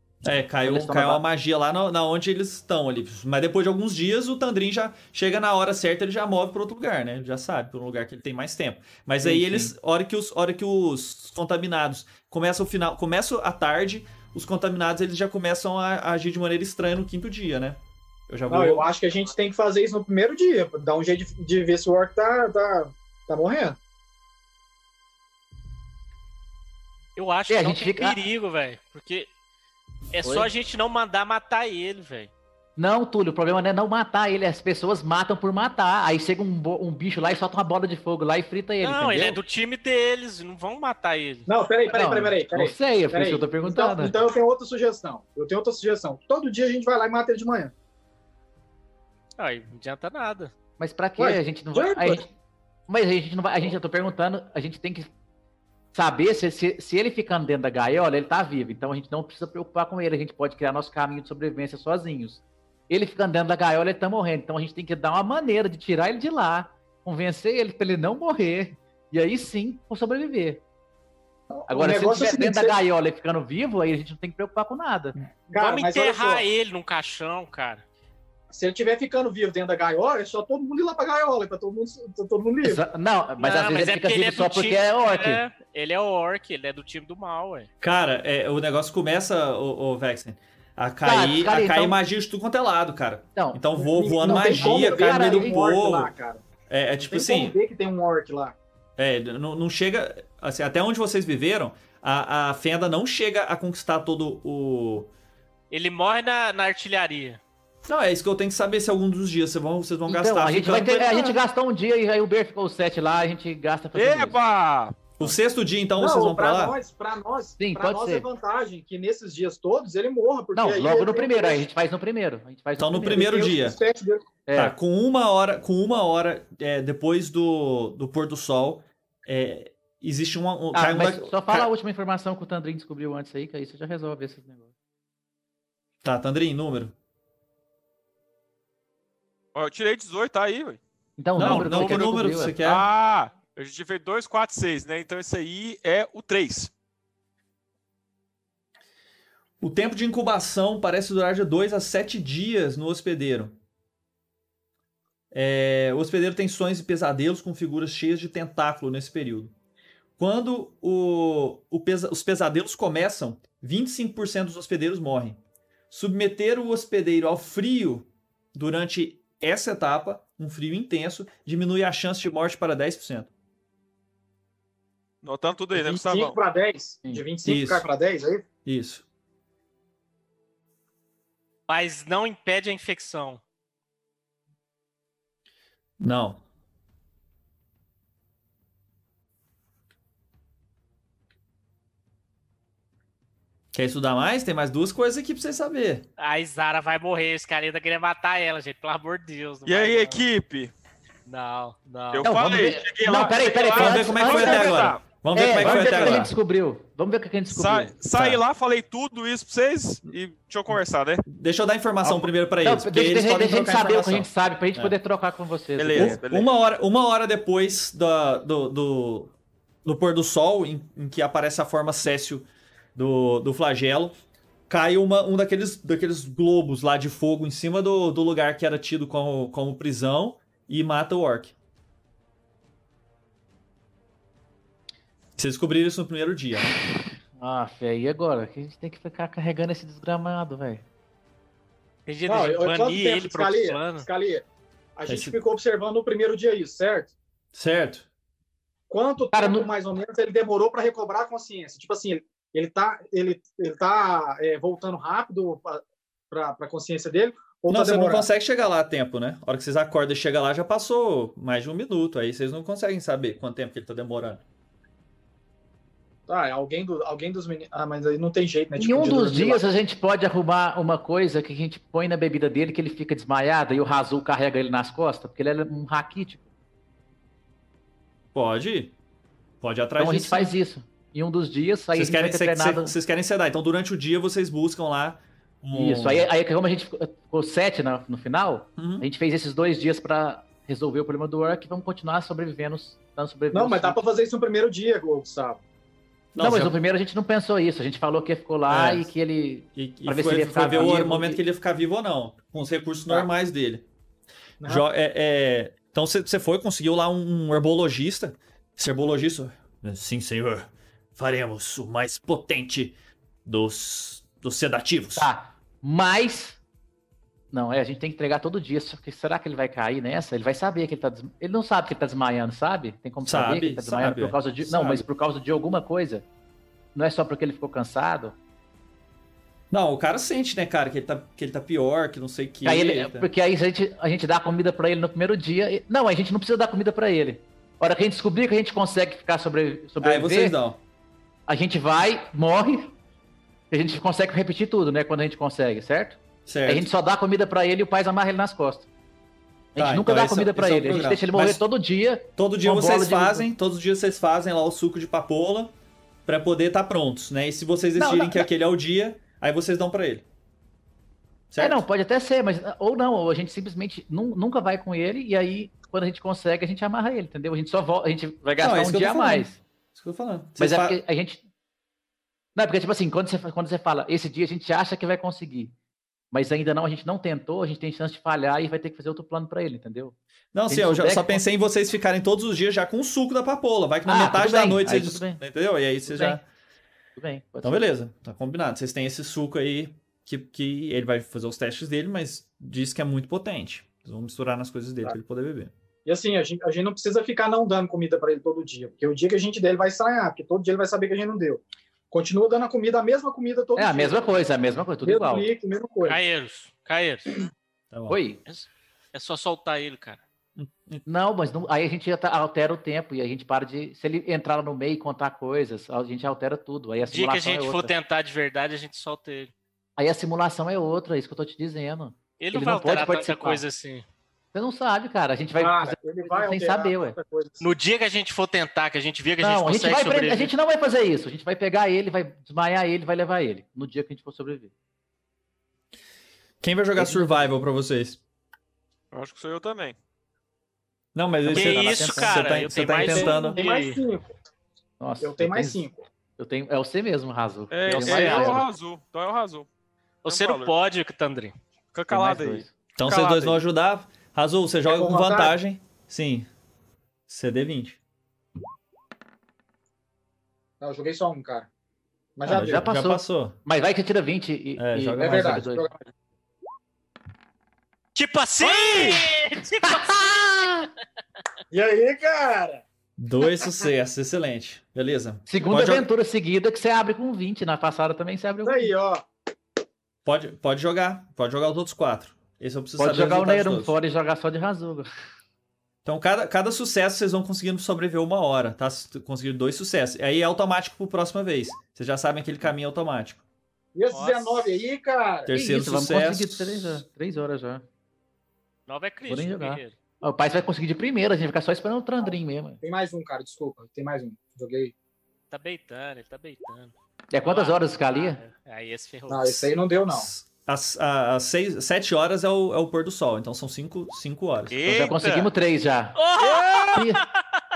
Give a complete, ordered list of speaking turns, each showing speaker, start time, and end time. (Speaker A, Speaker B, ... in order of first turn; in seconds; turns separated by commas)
Speaker A: 0.2-18.9, Speaker B: 0.6-1.2, Speaker B: 9.2-9.7, Speaker C: 18.5-23.8, Speaker D: 27.1-29.3, Speaker B: 27.5-28.2, Speaker D: 30.1-32.3, Speaker B: 30.2-30.5, Speaker B: 32.8-39.4, Speaker D: 38.8-41.5, Speaker C: 41.5-47.7, Speaker B: 41.9-44.1, Speaker D: 49.4-50.5, Speaker B: 50.8-52.2, Speaker C: 51.2-52.2, Speaker B: 52.9-55.1, Speaker B: 55.9-70.6, Speaker C: 71.5-72.8, Speaker B: 71.7-75.1, Speaker C: 75.5-76.4, Speaker D: 75.5-77.8, Speaker C: 78.5-82.8, Speaker B: 82.6-85.4, Speaker D: 83.4-87.7, Speaker A: 87.8-96.1, Speaker B: 91.0-92.0, Speaker B: 93.3-93.7, Speaker C: 93.8-96.4, Speaker B: 94.2-95.6, Speaker A: 96.7-97.5, Speaker C: 97.0-98.5, Speaker A: 99.0-105.1, Speaker D: 105.7-107.4, Speaker A: 107.8-111.4, Speaker B: 110.1-114.4, Speaker E: 113.9-115.1, Speaker A: 115.2-116.8, Speaker C: 116.0-121.6, Speaker B: 117.6-118.2, Speaker B: 120.5-123.3, Speaker A: 122.8-123.8, Speaker C: 123.1-124.3, Speaker B: 124.5-124.7, Speaker A: 124.5-131.7, Speaker B: 130.7-134.7, Speaker A: 136.0-136.9, Speaker E: 139.5-140.8, Speaker B: 141.2-142.6, Speaker A: 141.3-142.8, Speaker D: 141.4-142.0, Speaker E: 142.6-146.7, Speaker A: 149.6-153.6, Speaker A: 155.3-159.5, Speaker A: 160.2-165.4, Speaker A: 165.9-173.3, Speaker E: 175.2-176.4, Speaker C: 175.7-178.4, Speaker A: 177.4-177.9, Speaker A: 178.6-179.0, Speaker D: 181.7-183.4, Speaker A: 186.0-186.4, Speaker A: 193.7-196.1, Speaker D: 196.2-200.2, Speaker E: 199.7-200.7, Speaker D: 201.2-202.3, Speaker E: 202.1-205.0, Speaker B: 202.2-208.2, Speaker A: 203.8-206.3, Speaker E: 205.6-206.2, Speaker E: 207.5-211.2, Speaker A: 208.1-208.4, Speaker A: 211.3-214.9, Speaker B: 212.1-216.2, Speaker E: 215.8-216.5, Speaker A: 215.9-224.2, Speaker A: 224.7-231.5, Speaker A: 235.4-236.7, Speaker B: 237.4-240.8, Speaker D: 242.1-244.1, Speaker C: 242.3-244.4, Speaker C: 244.9-247.1, Speaker A: 245.1-245.4, Speaker A: 247.5-248.1, Speaker C: 248.9-258.3, Speaker B: 249.3-249.7, Speaker A: 257.7-264.4, Speaker C: 266.3-269.6, Speaker B: 268.8-276.4, Speaker A: 278.3-278.9, Speaker A: 279.6-280.5, Speaker B: 280.0-282.9, Speaker A: 281.9-286.3, Speaker B: 285.7-294.0, Speaker A: 288.8-289.1, Speaker C: 293.5-295.6, Speaker A: 296.3-296.7, Speaker B: 296.4-301.4, Speaker A: 298.7-299.1, Speaker A: 299.8-303.9, Speaker A: 304.6-315.3, Speaker B: 315.1-316.6, Speaker B: 317.5-326.2, Speaker A: 323.2-325.1, Speaker B: 326.9-328.4, Speaker A: 329.7-333.3, Speaker B: 332.6-340.6, Speaker A: 340.0-340.8, Speaker B: 341.5-342.9, Speaker B: 343.7-348.9, Speaker A: 346.4-346.9, Speaker B: 349.7-353.5, Speaker A: 349.8-351.6, Speaker A: 352.4-355.7, Speaker A: 356.2-360.2, Speaker B: 357.9-358.5, Speaker A: 361.5-361.8, Speaker B: 361.6-369.6, Speaker A: 368.6-371.0, Speaker B: 370.6-371.4, Speaker B: 372.6-375.7, Speaker B: 376.3-380.1, Speaker A: 380.5-386.4, Speaker B: 380.7-381.4, Speaker B: 384.1-385.4, Speaker B: 386.1-386.4, Speaker B: 387.1-387.8, Speaker A: 387.6-395.7, Speaker C: 396.0-404.2, Speaker B: 403.8-405.5, Speaker C: 405.0-406.2, Speaker D: 406.1-407.5, Speaker A: 407.9-408.2, Speaker B: 408.1-408.4, Speaker D: 408.5-410.2, Speaker A: 410.6-411.0, Speaker B: 411.1-417.9, Speaker D: 417.0-419.5, Speaker B: 420.0-423.6, Speaker D: 422.4-424.0, Speaker B: 424.5-427.1, Speaker C: 425.6-427.6, Speaker D: 427.6-430.5, Speaker B: 429.4-434.7, Speaker A: 436.6-438.2, Speaker B: 436.9-437.4, Speaker E: 439.1-439.9, Speaker A: 441.1-443.6, Speaker B: 441.5-442.4, Speaker D: 441.5-444.0, Speaker C: 443.0-444.3, Speaker B: 445.0-445.9, Speaker C: 445.2-446.0, Speaker B: 446.4-448.6, Speaker E: 447.7-449.7, Speaker D: 447.9-448.6, Speaker E: 450.2-450.7, Speaker D: 450.2-451.5, Speaker E: 451.9-453.6, Speaker B: 452.1-452.7, Speaker A: 453.0-456.5, Speaker C: 454.9-455.5, Speaker A: 457.3-458.0, Speaker C: 460.8-461.7, Speaker C: 462.4-462.9, Speaker A: 462.4-463.6, Speaker B: 462.5-465.9, Speaker A: 464.8-465.6, Speaker C: 465.2-466.1, Speaker D: 468.1-470.2, Speaker E: 468.6-469.2, Speaker B: 469.8-470.9, Speaker C: 471.7-472.8, Speaker A: 473.2-476.1, Speaker B: 475.5-478.9, Speaker C: 478.6-479.2, Speaker A: 480.2-483.9, Speaker B: 483.0-485.1, Speaker A: 486.0-493.4, Speaker C: 493.9-495.5, Speaker D: 494.1-494.8, Speaker A: 495.5-497.0, Speaker B: 495.5-497.8, Speaker D: 498.9-499.9, Speaker B: 499.3-502.8, Speaker C: 502.2-504.9, Speaker D: 505.5-506.9, Speaker B: 507.3-508.4, Speaker D: 507.4-509.7, Speaker C: 509.3-510.3, Speaker A: 510.1-514.8, Speaker E: 514.7-515.5, Speaker B: 514.8-516.2, Speaker D: 516.1-517.6, Speaker E: 516.4-517.0, Speaker B: 516.9-517.2